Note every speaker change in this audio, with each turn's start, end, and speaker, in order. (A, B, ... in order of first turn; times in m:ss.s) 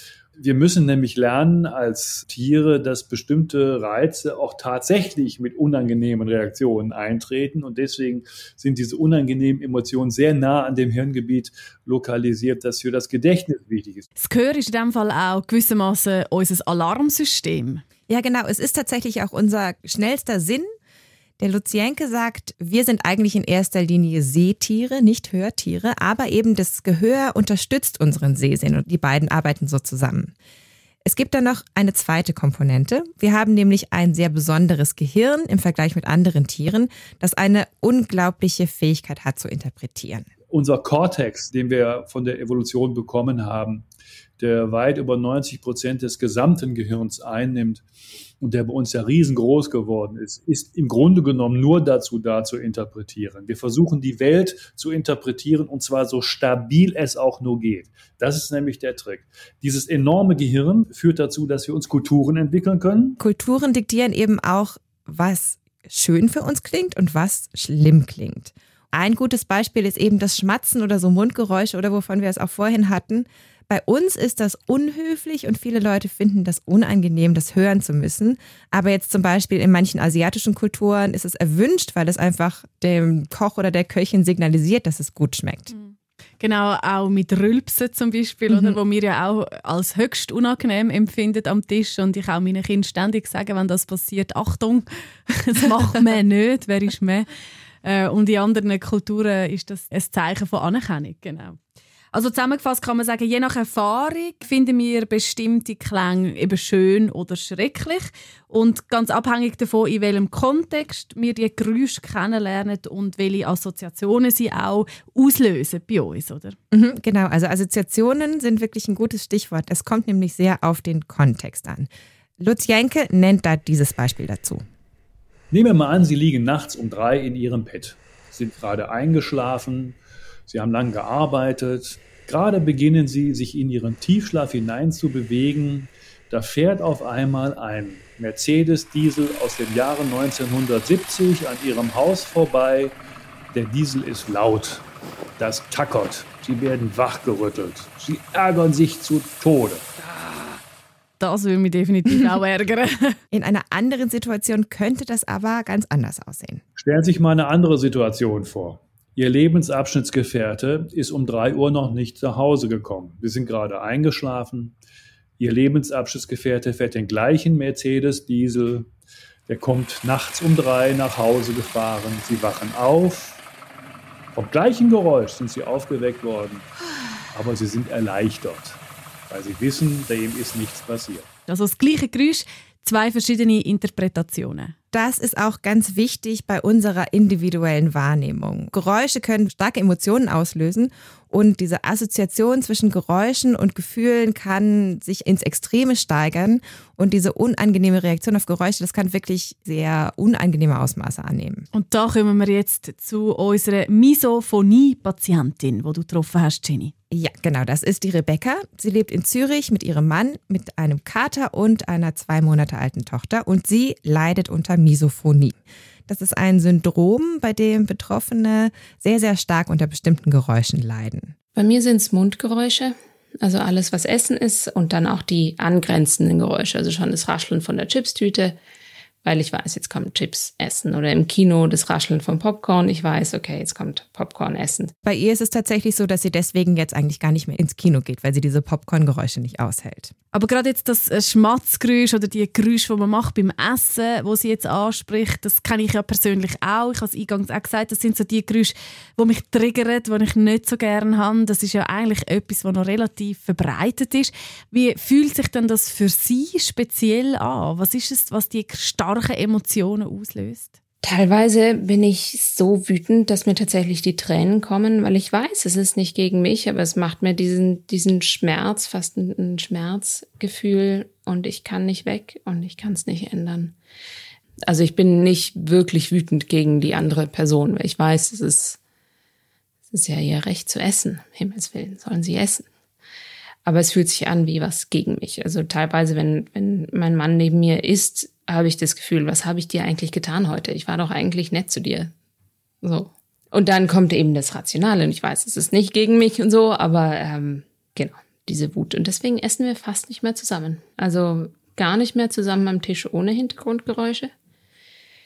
0:00.4-0:14.1 A
0:14.2-0:17.8 B
0:18.1-0:20.7 C
0:21.4-0:30.3 C
0:31.0-0:40.3 C
0:40.5-0:43.8 A
0:44.4-0:47.8 A
0:48.4-1:03.2 A
1:03.2-1:25.7 C
1:25.7-1:37.2 B
1:28.5-1:28.8 C
1:37.8-1:41.6 B
1:42.1-1:56.6 B
1:56.7-2:04.6 C
2:05.5-2:10.0 A
2:10.5-2:22.9 A
2:23.5-2:24.8 A
2:25.4-2:29.9 A
2:31.2-2:33.2 B
2:33.3-2:36.6 C
2:36.8-2:44.7 A
2:45.4-2:48.9 A
2:49.5-2:53.4 A
2:54.3-2:56.7 A
2:57.3-3:01.3 A
3:01.5-3:04.7 B
3:04.9-3:21.6 C
3:21.7-3:26.9 B
3:27.1-3:35.6 C
3:36.1-3:41.3 C
3:41.5-3:48.6 D
3:49.2-3:54.9 D
3:55.0-4:00.1 C
4:00.3-4:20.7 B
4:21.0-4:33.8 D
4:34.6-4:38.8 D
4:39.9-4:42.6 D
4:43.6-4:52.1 D
4:52.8-5:04.3 D